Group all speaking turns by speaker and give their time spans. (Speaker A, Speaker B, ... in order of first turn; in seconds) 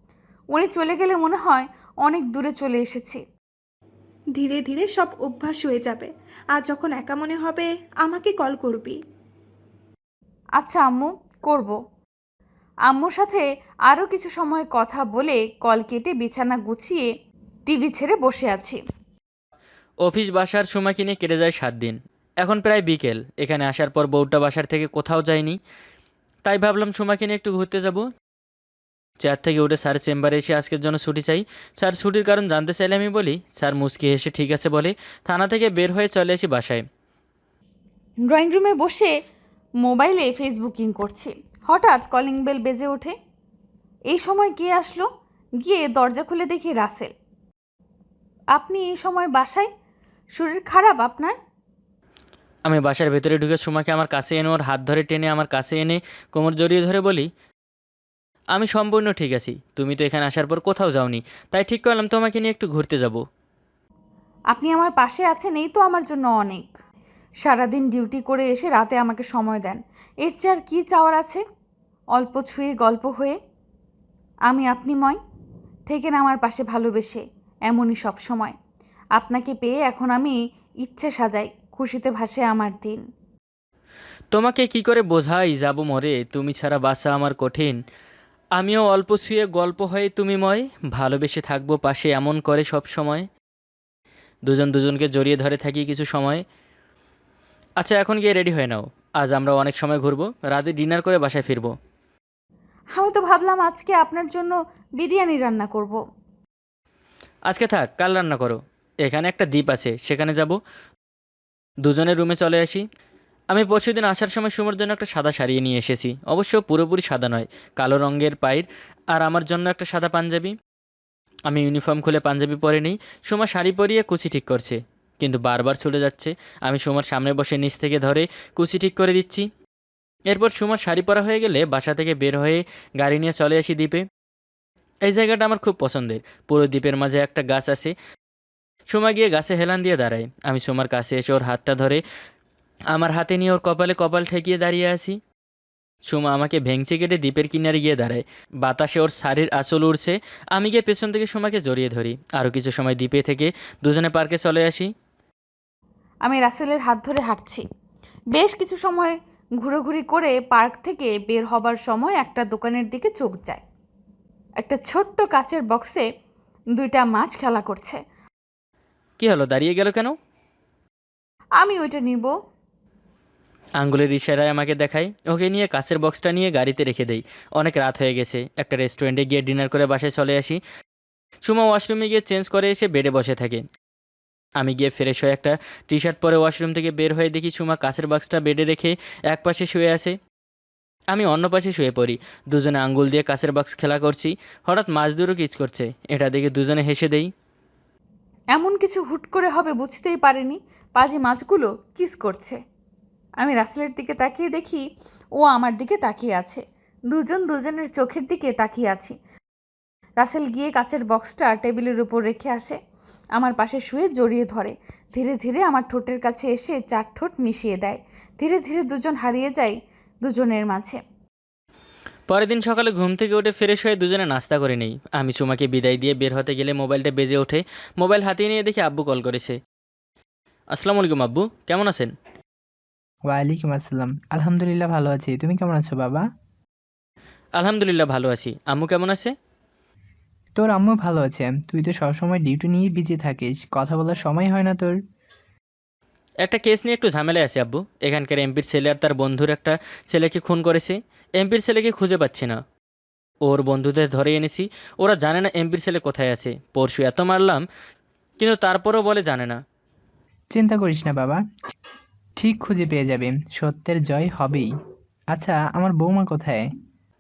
Speaker A: 0.5-3.2, 10.6-11.8, 12.9-17.1, 17.7-18.8, 38.3-39.1, 39.8-43.1, 44.1-45.0, 45.6-47.1, 48.6-49.7, 50.4-51.3, 64.5-66.7, 67.4-71.4, 72.2-73.4, 74.5-75.2, 75.9-78.5, 79.2-83.0, 103.0-106.0, 156.2-157.6, 158.3-163.6, 164.6-166.0, 166.8-168.0, 171.6-172.3, 198.6-202.6, 203.4-204.8, 205.4-209.2, 210.2-212.8, 213.4-221.0
Speaker B: 4.4-9.0
Speaker C: 20.1-25.6, 26.5-28.0, 29.2-36.8, 52.7-57.3, 58.5-63.2, 84.3-87.8, 88.6-93.3, 94.5-96.4, 97.8-101.7, 107.5-110.6, 111.8-112.8, 113.5-120.5, 121.5-129.5, 130.3-134.0, 135.1-137.9, 138.9-142.0, 142.9-145.2, 146.1-154.9, 169.2-170.2, 173.8-180.6, 181.4-183.6, 184.6-190.2, 191.1-197.3, 222.3-229.6, 230.7-232.1, 237.6-239.3, 246.4-252.6, 253.5-257.6, 258.4-259.6
Speaker D: 233.3-236.2, 240.6-245.0, 260.5-261.4, 262.4-264.7, 265.3-266.6